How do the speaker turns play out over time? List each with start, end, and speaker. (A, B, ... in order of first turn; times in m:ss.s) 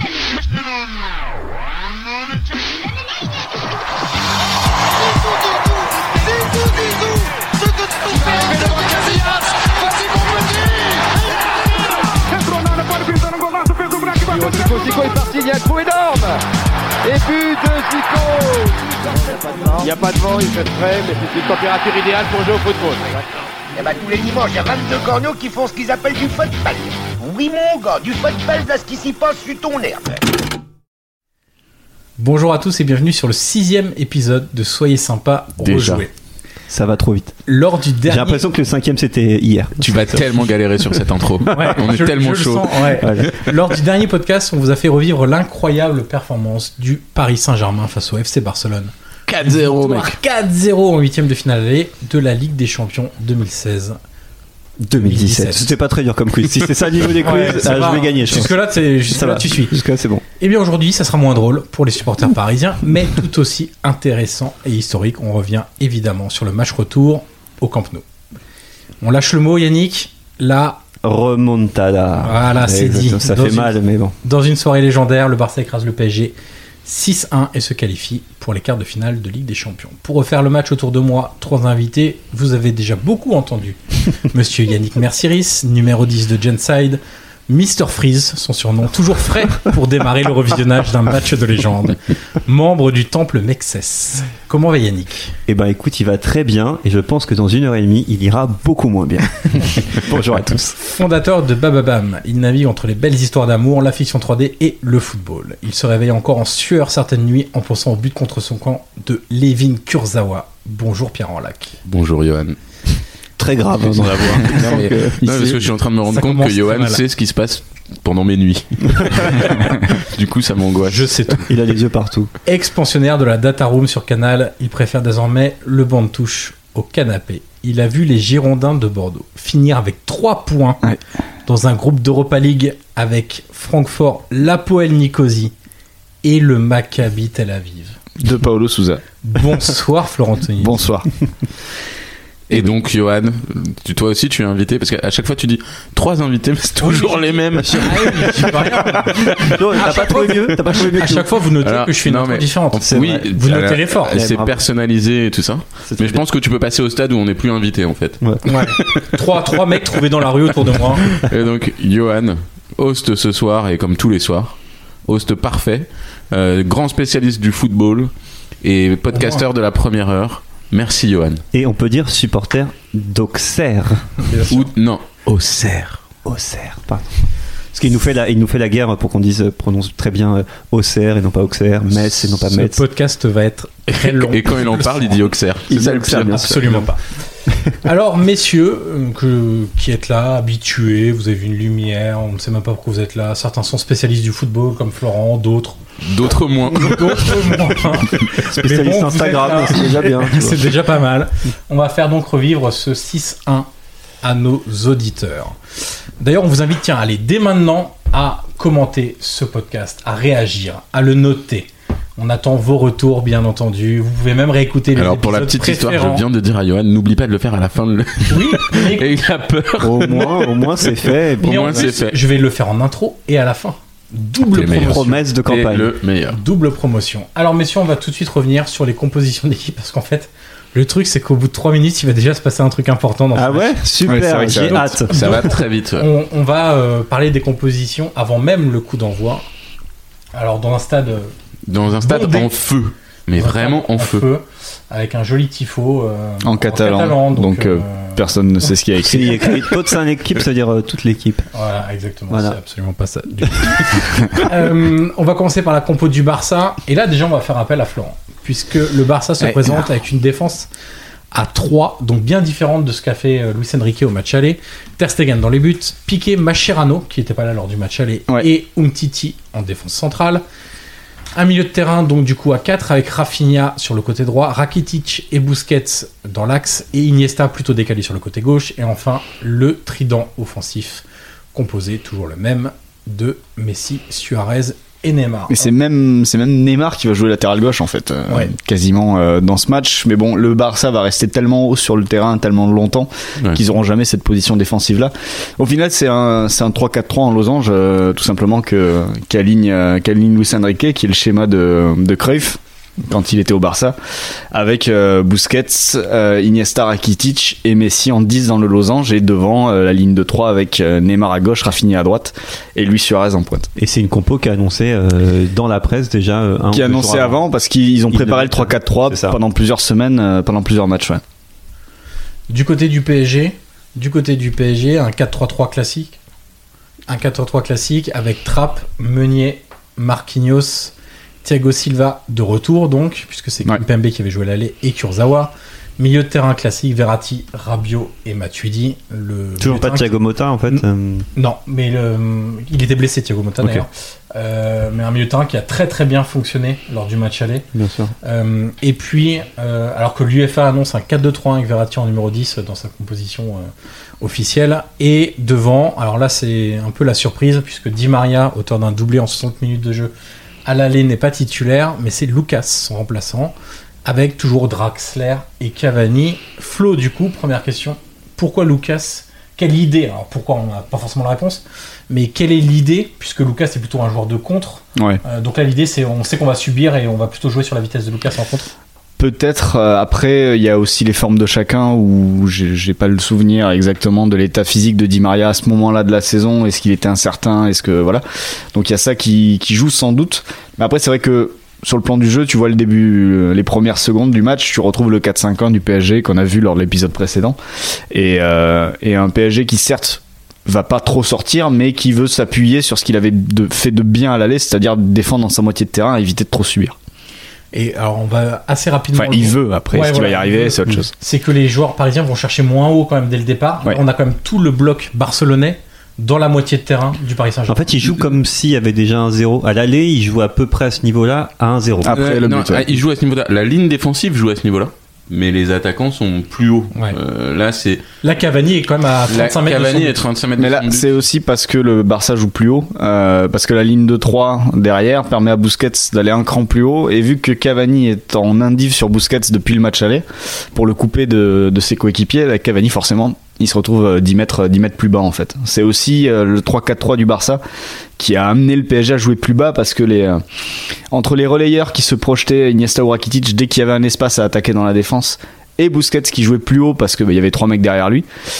0:05.1-0:16.4 A
0:17.0-0:23.2 A
0:18.8-0:19.9 B
0:23.7-0:30.2 B
0:32.2-0:36.1 C
0:35.6-0:36.0 D
0:36.7-0:37.3 E
0:37.5-0:38.4 C
0:38.0-0:40.5 E
0:39.8-0:43.1 D
0:41.5-0:48.9 C
0:43.0-0:43.4 E
0:49.3-0:50.1 D
0:49.4-0:54.0 C
0:54.8-1:00.2 E
0:54.9-0:55.7 C
0:57.2-0:59.8 C
1:00.4-1:08.0 C
1:09.0-1:10.8 C
1:11.0-1:14.1 E
1:12.2-1:35.3 C
1:35.5-1:40.8 E
1:40.8-1:51.8 C
1:51.8-1:52.6 D
1:53.4-1:55.7 E
1:53.9-2:01.3 D
1:56.1-1:57.0 C
2:00.9-2:01.5 C
2:01.5-2:02.3 E
2:02.4-2:10.8 C
2:11.4-2:15.5 C
2:16.2-2:18.0 C
2:18.2-2:19.0 F
2:19.2-2:20.8 C
2:20.6-2:21.1 F
2:22.5-2:29.6 D
2:26.8-2:34.2 C
2:27.5-2:31.3 E
2:31.6-2:39.0 D
2:32.8-2:34.6 E
2:35.8-2:36.2 E
2:38.2-2:39.0 E
2:38.4-2:41.1 C
2:41.1-2:48.1 D
2:48.6-2:51.4 D
2:49.1-2:49.4 C
2:51.5-2:54.2 E
2:54.2-2:54.7 C
2:54.5-2:56.0 D
2:56.2-3:02.8 E
3:02.4-3:05.2 C
3:03.9-3:06.6 D
3:05.7-3:06.9 E
3:06.2-3:07.0 C
3:07.7-3:15.8 C
3:16.0-3:17.6 D
3:16.7-3:23.7 C
3:18.3-3:20.7 E
3:24.2-3:25.6 C
3:26.2-3:36.2 C
3:34.9-3:42.2 D
3:38.3-3:39.2 C
3:39.8-3:41.9 E
3:41.4-3:45.2 C
3:44.5-3:45.9 E
3:44.5-3:46.4 D
3:46.3-3:53.8 C
3:53.3-3:55.6 E
3:54.0-3:55.0 F
3:54.9-3:56.0 D
3:55.0-3:59.4 C
4:00.3-4:01.3 C
4:01.7-4:04.2 D
4:02.0-4:02.5 C
4:03.3-4:08.2 C
4:06.4-4:09.6 F
4:09.0-4:11.4 E
4:11.5-4:20.7 C
4:12.3-4:12.6 E
4:19.4-4:19.8 F
4:21.3-4:30.4 C
4:31.3-4:45.7 C
4:45.5-5:04.0 F
5:04.5-5:13.7 F
5:13.8-5:17.4 E
5:16.7-5:21.2 F
5:18.1-5:19.4 E
5:22.5-5:26.2 C
5:27.1-5:40.1 C
5:39.6-5:41.2 E
5:40.7-5:47.6 C
5:47.7-5:48.1 E
5:48.2-5:53.7 C
5:54.2-6:00.1 C
6:00.6-6:18.7 C
6:19.2-6:37.6 F
6:38.1-6:47.0 F
6:47.7-6:58.3 C
6:49.2-6:51.1 F
6:57.7-7:02.2 E
7:02.0-7:02.9 F
7:02.1-7:08.0 D
7:08.2-7:10.2 C
7:09.3-7:11.1 D
7:10.6-7:27.6 F
7:28.2-7:30.4 F
7:31.1-7:38.2 F